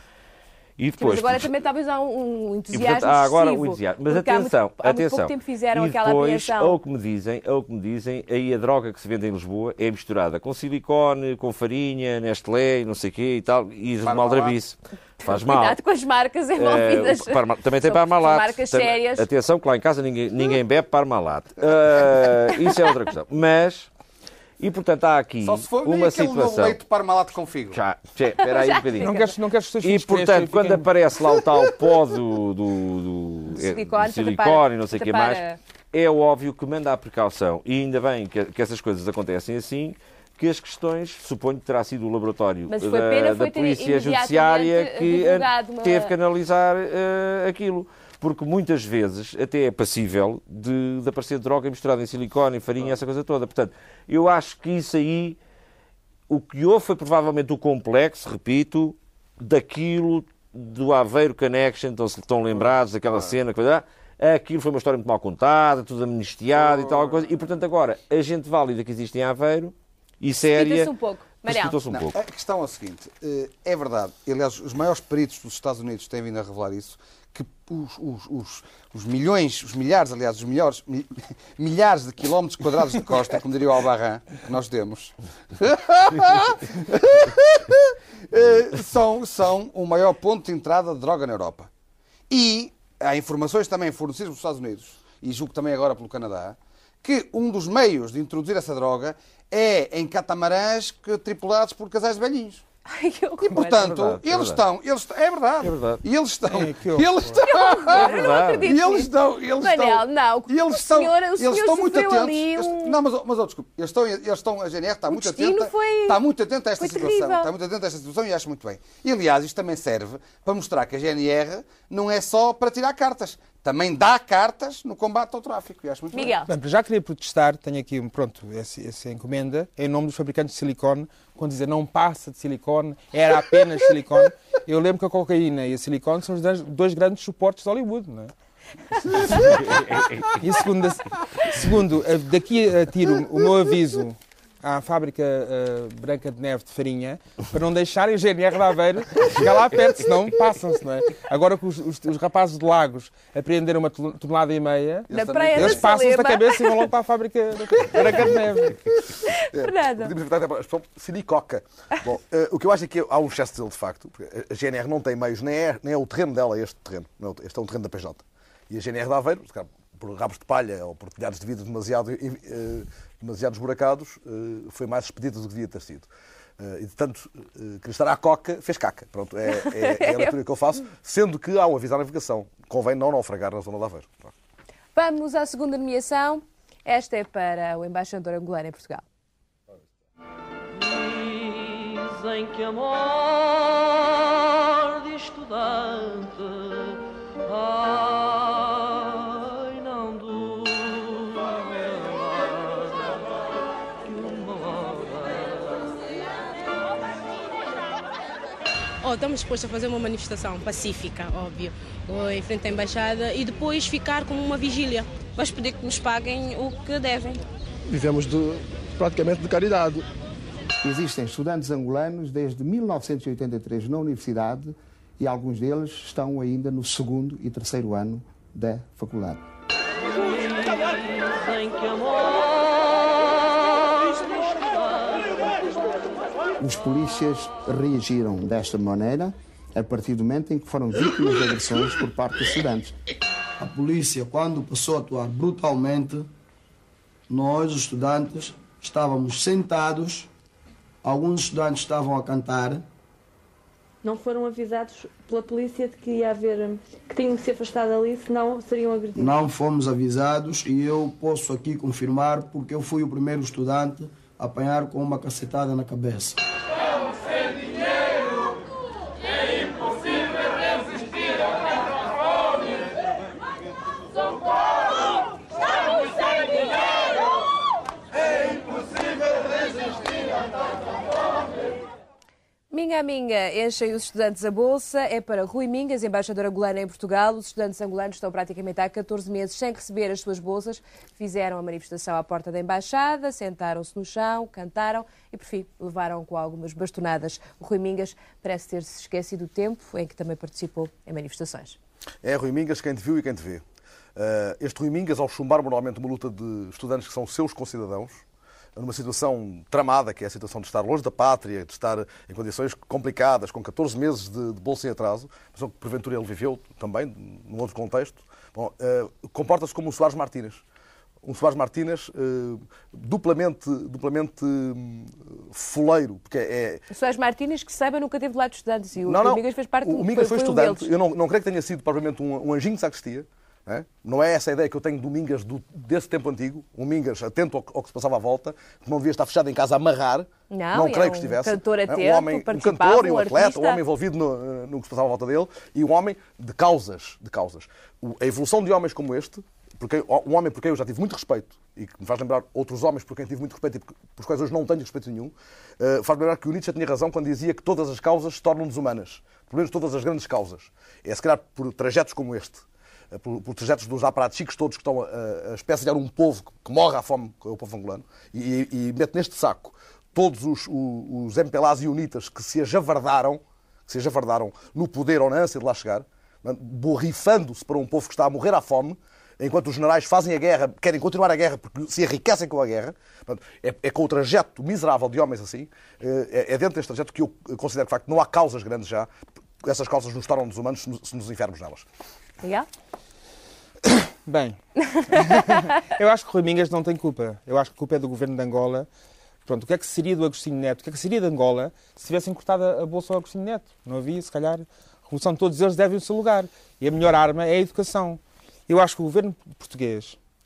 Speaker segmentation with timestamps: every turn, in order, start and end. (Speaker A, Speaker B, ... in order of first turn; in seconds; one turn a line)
Speaker A: 0.8-1.5
Speaker B: 1.0-6.8
Speaker A: 2.7-15.8
Speaker C: 14.0-14.5
Speaker B: 15.2-19.2
Speaker A: 16.6-23.9
Speaker A: 24.6-26.8
Speaker C: 25.4-27.8
Speaker A: 27.7-29.2
Speaker B: 28.4-29.3
Speaker D: 29.0-30.9
Speaker A: 29.8-35.4
Speaker B: 33.5-35.6
Speaker A: 35.9-55.4
Speaker B: 42.7-46.1
Speaker A: 56.3-70.9
Speaker C: 66.5-67.2
Speaker B: 70.4-71.8
Speaker A: 71.4-72.1
Speaker C: 71.9-91.7
Speaker C: 92.3-102.6
Speaker B: 102.9-103.8
Speaker C: 103.4-126.4
Speaker A: 103.8-104.6
Speaker A: 105.6-106.0
Speaker D: 106.5-107.4
Speaker B: 107.4-113.0
Speaker A: 107.9-108.7
Speaker B: 115.1-116.2
Speaker B: 116.8-117.5
Speaker B: 126.1-126.5
Speaker D: 126.5-138.3
Speaker D: 139.0-139.6
Speaker D: 140.4-158.8
Speaker C: 155.1-155.9
Speaker B: 155.1-156.9
Speaker B: 159.2-160.1
Speaker E: 159.6-184.3
Speaker B: 179.6-180.3
Speaker B: 184.9-189.0
Speaker F: 190.7-203.2
Speaker F: 204.0-206.0
Speaker G: 209.0-217.4
Speaker H: 217.8-220.0
Speaker I: 220.8-229.4
Speaker F: 230.2-232.7
Speaker F: 234.1-235.3
Speaker I: 236.6-242.9
Speaker J: 243.6-246.3
Speaker J: 247.3-250.3
Speaker J: 251.0-252.8
Speaker K: 254.0-259.4
Speaker J: 259.1-266.4
Speaker B: 282.7-301.8
Speaker E: 302.2-303.6
Speaker E: 304.1-308.2
Speaker E: 308.8-320.6
Speaker E: 321.2-326.8
Speaker B: 326.9-330.9
Speaker E: 329.0-389.1
Speaker B: 340.5-343.8
Speaker E: 389.6-391.9
Speaker D: 393.9-394.6
Speaker B: 394.9-395.4
Speaker D: 395.1-398.9
Speaker D: 399.4-410.2